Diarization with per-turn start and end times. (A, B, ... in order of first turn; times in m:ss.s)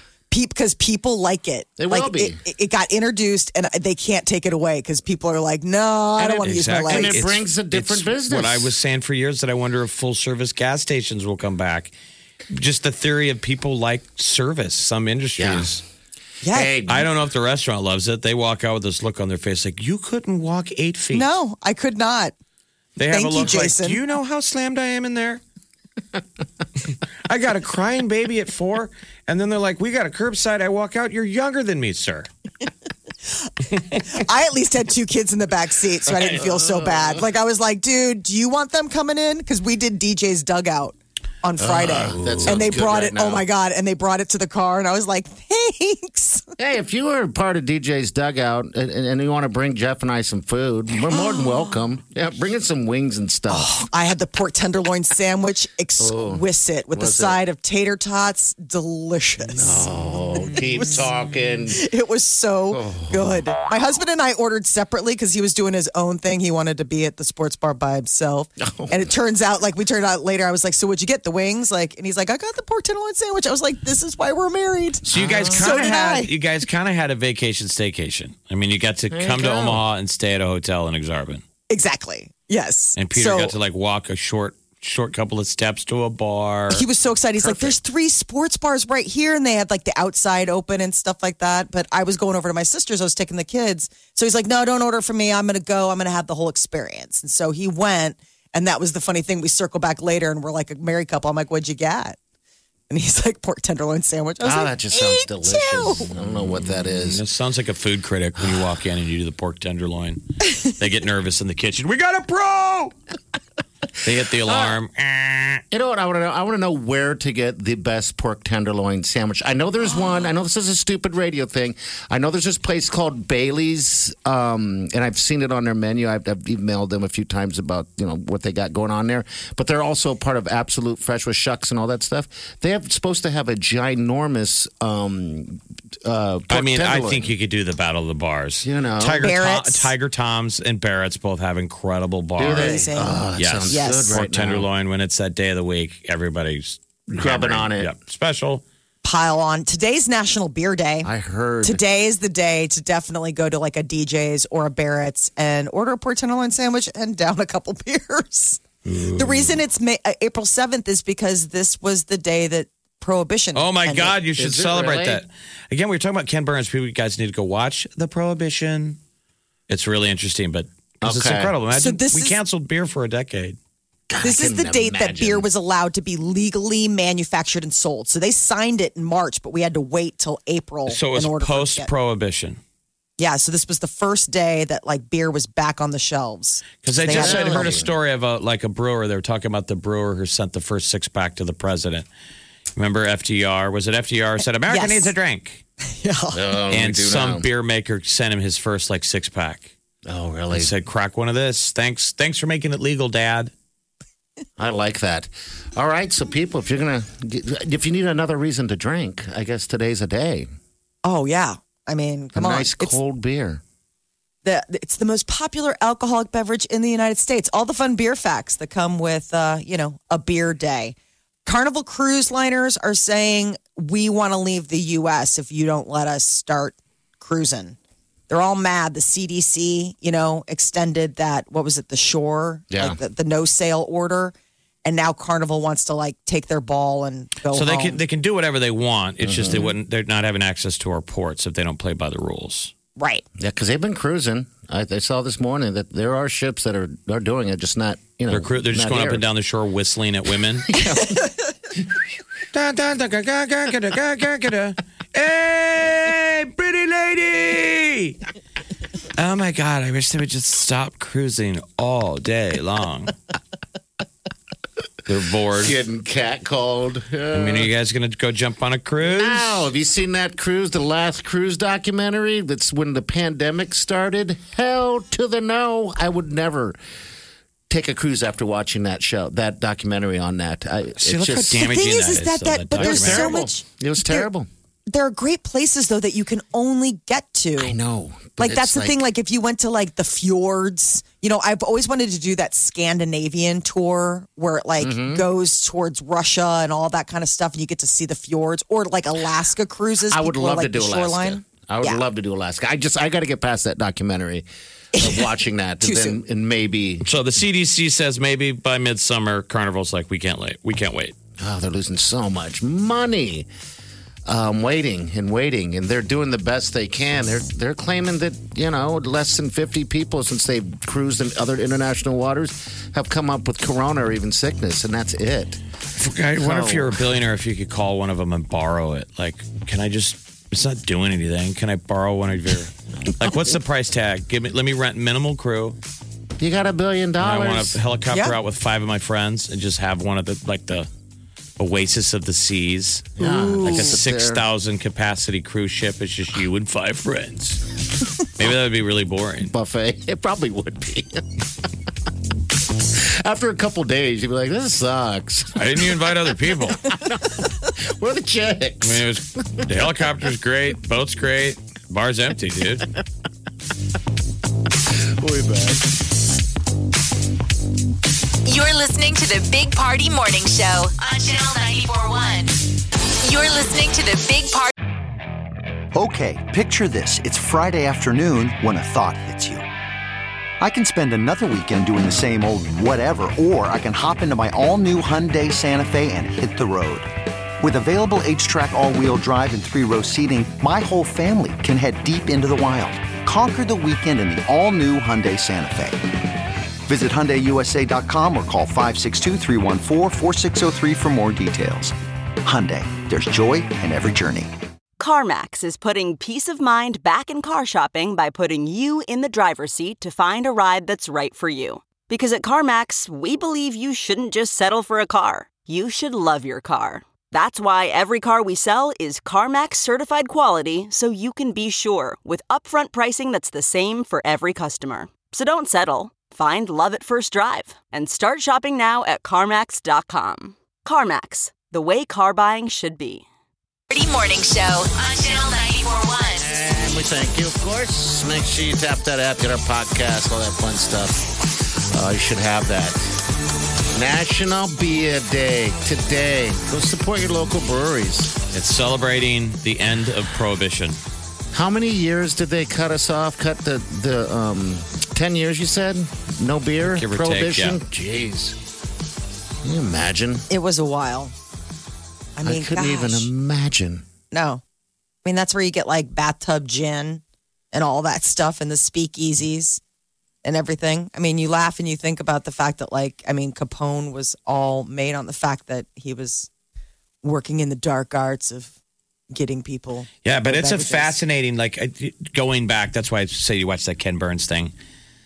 0:00.3-0:07.2 A
0:01.8-0:02.4 B
0:06.2-0:08.7 B
0:06.2-0:11.9 C
0:12.5-0:15.8 C
0:15.4-0:15.7 B
0:16.4-0:16.7 A
0:16.5-0:17.1 B
0:16.9-0:21.3 C
0:21.1-0:22.3 A
0:23.0-0:25.4 C
0:23.1-0:24.0 A
0:27.3-0:32.3 C
0:33.9-0:46.5 A
0:36.1-0:37.2 B
0:41.6-0:43.4 B
0:42.1-0:42.8 C
0:46.6-0:53.8 B
0:53.5-0:59.8 A
0:56.0-0:57.4 B
0:59.6-1:01.9 B
1:00.5-1:00.9 A
1:01.7-1:16.3 A
1:02.7-1:03.4 B
1:08.6-1:09.0 B
1:15.0-1:15.8 B
1:15.1-1:21.4 C
1:19.1-1:19.8 B
1:21.7-1:23.5 A
1:23.0-1:26.8 C
1:26.7-1:42.2 A
1:27.4-1:27.8 B
1:42.9-1:46.1 A
1:44.4-1:47.2 B
1:46.2-1:52.9 C
1:54.0-1:55.6 C
1:54.4-1:54.8 B
1:55.7-2:17.3 B
2:16.5-2:22.8 C
2:18.6-2:19.3 B
2:19.2-2:19.9 A
2:22.4-2:24.7 B
2:22.5-2:24.1 A
2:23.4-2:28.6 C
2:27.1-2:27.9 B
2:29.0-2:31.1 A
2:31.0-2:31.8 B
2:31.6-2:38.6 A
2:38.8-2:39.6 C
2:39.2-2:44.2 A
2:43.6-2:49.0 C
2:44.4-2:45.2 B
2:49.7-2:53.6 C
2:51.0-2:51.5 B
2:51.7-2:52.4 A
2:54.1-2:55.5 B
2:54.2-3:01.9 A
3:00.9-3:02.6 C
3:03.2-3:07.8 A
3:06.8-3:12.1 C
3:07.1-3:07.9 B
3:12.8-3:15.6 C
3:14.7-3:15.1 A
3:16.0-3:16.4 A
3:16.3-3:17.5 B
3:16.7-3:19.7 C
3:20.1-3:20.7 B
3:20.5-3:23.5 C
3:24.6-3:30.5 B
3:31.0-3:33.0 A
3:32.4-3:33.6 B
3:34.4-3:47.8 A
3:48.3-3:58.0 A
3:52.7-3:53.0 B
3:57.5-4:02.7 C
3:59.2-3:59.7 B
4:03.0-4:03.2 A
4:03.4-4:09.2 B
4:08.3-4:10.7 C
4:10.7-4:11.3 B
4:12.5-4:18.2 C
4:19.2-4:23.1 C
4:25.1-4:25.8 C
4:25.6-4:27.7 B
4:27.3-4:29.7 C
4:29.0-4:36.8 B
4:37.7-4:41.6 B
4:41.0-4:43.5 C
4:41.5-4:44.3 A
4:42.8-4:44.5 B
4:44.9-4:47.8 A
4:47.6-4:49.0 B
4:48.4-5:02.0 A
4:54.8-4:55.2 B
5:00.1-5:07.1 B
5:05.0-5:05.2 A
5:05.8-5:06.2 A
5:07.0-5:11.2 C
5:11.4-5:13.5 B
5:14.3-5:25.6 B
5:26.0-5:35.8 C
5:26.4-5:27.0 B
5:36.4-5:37.8 B
5:37.2-5:40.9 C
5:41.6-5:47.6 C
5:43.2-5:44.4 B
5:43.2-5:44.0 A
5:48.4-5:49.5 C
5:49.5-5:51.3 B
5:52.9-5:56.1 B
5:55.6-5:56.9 C
5:56.8-5:59.9 B
5:58.8-6:02.9 C
6:05.0-6:05.9 B
6:08.4-6:12.6 D
6:13.2-6:14.7 D
6:15.9-6:19.7 E
6:20.6-6:27.1 E
6:27.6-6:36.0 E
6:36.9-6:44.5 E
6:45.0-7:13.3 F
7:13.9-7:16.5 D
7:16.4-7:21.3 B
7:21.9-7:23.0 B
7:23.9-7:28.3 B
7:28.5-7:31.0 C
7:31.5-7:38.6 B
7:36.8-7:37.8 C
7:39.6-7:40.5 B
7:40.5-7:41.3 A
7:42.4-7:43.3 A
7:42.4-7:44.0 B
7:44.3-7:44.6 A
7:45.2-7:49.8 A
7:50.4-7:56.5 A
7:57.2-7:58.7 A
7:59.3-8:01.2 A
8:00.2-8:04.7 C